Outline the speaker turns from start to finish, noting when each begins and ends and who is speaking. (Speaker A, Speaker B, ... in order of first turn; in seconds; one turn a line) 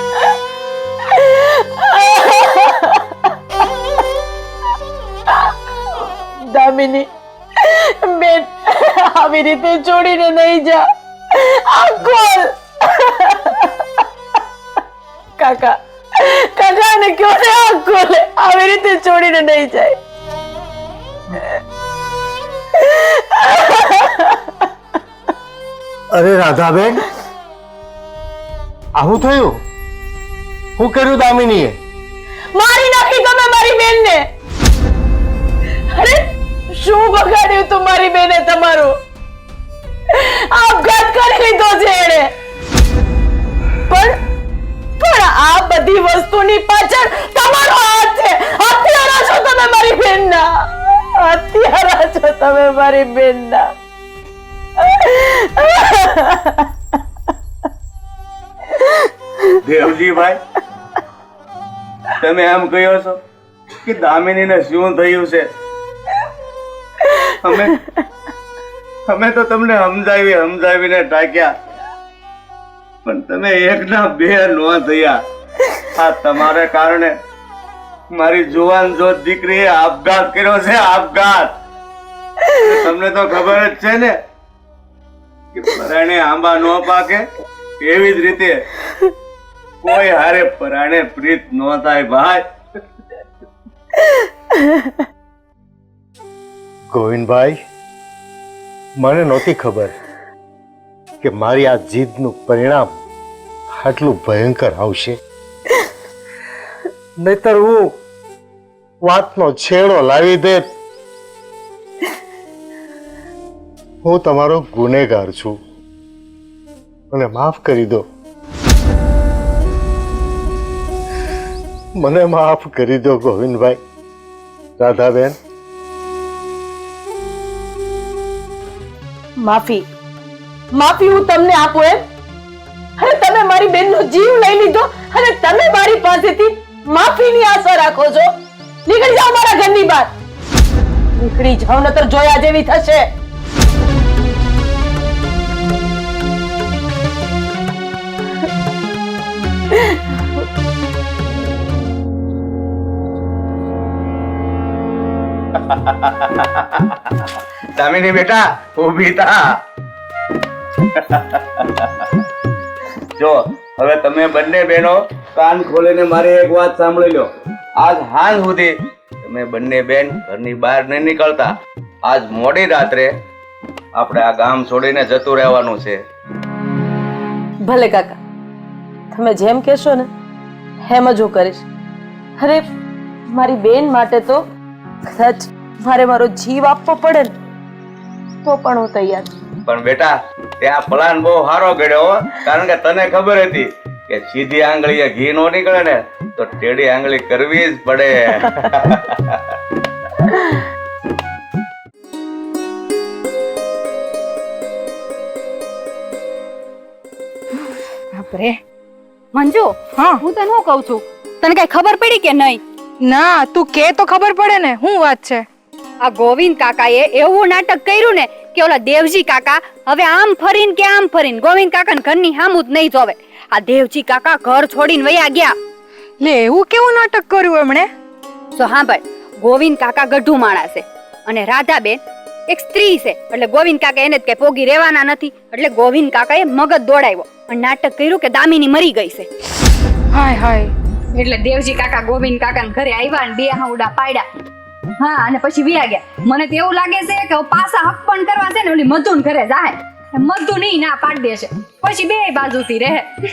Speaker A: 1.1-3.1
Speaker A: 6.5-7.1
Speaker A: 7.6-13.8
Speaker A: 15.4-20.0
Speaker A: 22.8-24.6
Speaker B: 26.1-27.0
Speaker B: 28.9-29.5
Speaker B: 30.8-31.7
Speaker A: 32.5-34.2
Speaker A: 35.9-36.2
Speaker A: 36.8-38.9
Speaker A: 40.1-42.3
Speaker A: 43.9-44.1
Speaker A: 45.0-50.5
Speaker A: 51.2-53.7
Speaker A: 54.8-56.7
Speaker A: 58.7-59.5
Speaker C: 59.6-60.4
Speaker C: 62.2-63.2
Speaker C: 63.8-65.4
Speaker C: 67.4-67.7
Speaker C: 69.1-71.5
Speaker C: 73.0-75.2
Speaker C: 76.0-77.1
Speaker C: 78.1-81.5
Speaker C: 82.6-84.1
Speaker C: 85.5-87.2
Speaker C: 87.8-88.6
Speaker C: 89.8-92.4
Speaker A: 94.6-94.9
Speaker B: 96.9-97.6
Speaker B: 99.0-99.9
Speaker B: 101.2-102.9
Speaker B: 103.8-105.2
Speaker B: 107.2-107.9
Speaker B: 109.0-110.6
Speaker B: 114.0-115.6
Speaker B: 117.1-118.0
Speaker B: 122.0-123.8
Speaker B: 124.8-125.3
Speaker A: 129.4-129.8
Speaker A: 130.7-132.0
Speaker A: 133.0-138.3
Speaker A: 138.8-140.1
Speaker A: 141.2-143.1
Speaker A: 149.7-150.0
Speaker C: 155.8-157.0
Speaker C: 157.8-159.4
Speaker C: 161.0-162.1
Speaker C: 163.2-167.3
Speaker C: 167.8-171.5
Speaker C: 172.1-173.1
Speaker C: 173.9-176.0
Speaker A: 177.6-178.2
Speaker A: 179.1-180.1
Speaker A: 180.8-181.6
Speaker A: 182.4-182.7
Speaker A: 183.3-184.4
Speaker A: 185.1-187.3
Speaker A: 188.4-189.3
Speaker C: 189.7-199.4
Speaker A: 200.2-200.6
Speaker D: 208.1-208.6
Speaker E: 209.3-212.6
Speaker D: 210.0-210.2
Speaker D: 213.1-215.4
Speaker E: 216.0-225.6
Speaker D: 226.2-227.9
Speaker E: 228.5-239.3
Speaker D: 240.1-240.7
Speaker E: 241.1-244.2
Speaker E: 245.0-253.1